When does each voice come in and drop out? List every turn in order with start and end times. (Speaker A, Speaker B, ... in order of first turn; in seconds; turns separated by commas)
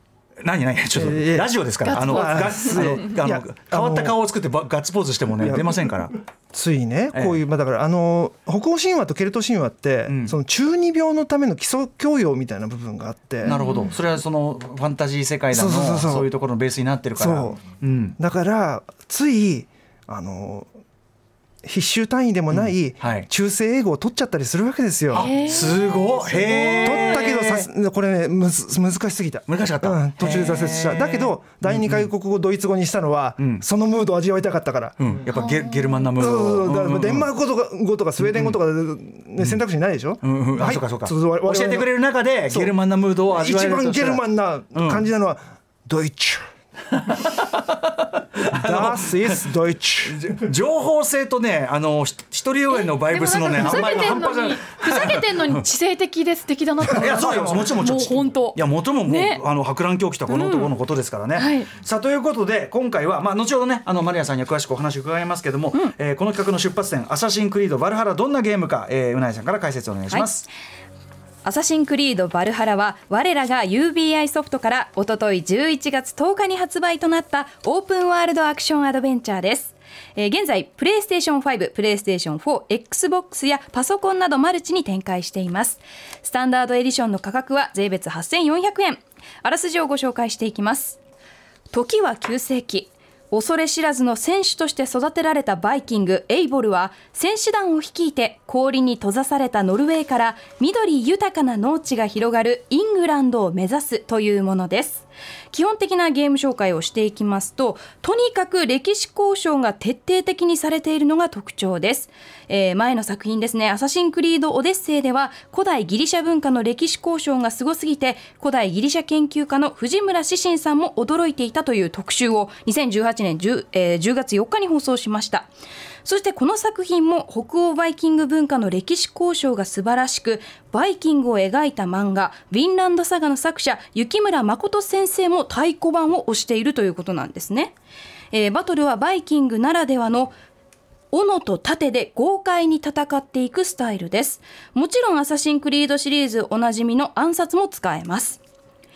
Speaker A: 0.4-6.2, Speaker B: 0.9-4.2, Speaker C: 1.8-3.1, Speaker B: 5.4-5.9, Speaker B: 6.5-13.6, Speaker A: 7.1-7.4, Speaker A: 10.1-10.3, Speaker A: 13.4-18.2, Speaker C: 13.5-13.9, Speaker B: 15.5-16.3, Speaker B: 17.2-17.6, Speaker B: 18.2-20.7, Speaker B: 21.6-25.3, Speaker A: 22.5-23.3, Speaker A: 25.1-27.7, Speaker C: 25.1-27.3, Speaker B: 26.8-35.1, Speaker A: 29.5-32.1, Speaker A: 33.4-33.6, Speaker A: 35.0-37.3, Speaker C: 35.3-36.1, Speaker B: 36.1-41.9, Speaker A: 38.2-38.6, Speaker A: 40.2-45.0, Speaker B: 42.5-42.7, Speaker B: 43.3-46.5, Speaker A: 46.9-49.5, Speaker B: 48.5-50.4, Speaker A: 50.0-55.6, Speaker C: 52.7-59.4, Speaker A: 56.8-70.5, Speaker B: 56.9-57.7, Speaker C: 60.3-60.7, Speaker C: 61.4-61.7, Speaker D: 71.4-91.0, Speaker D: 91.7-125.5, Speaker D: 126.0-137.7, Speaker D: 138.3-140.3, Speaker D: 141.1-148.4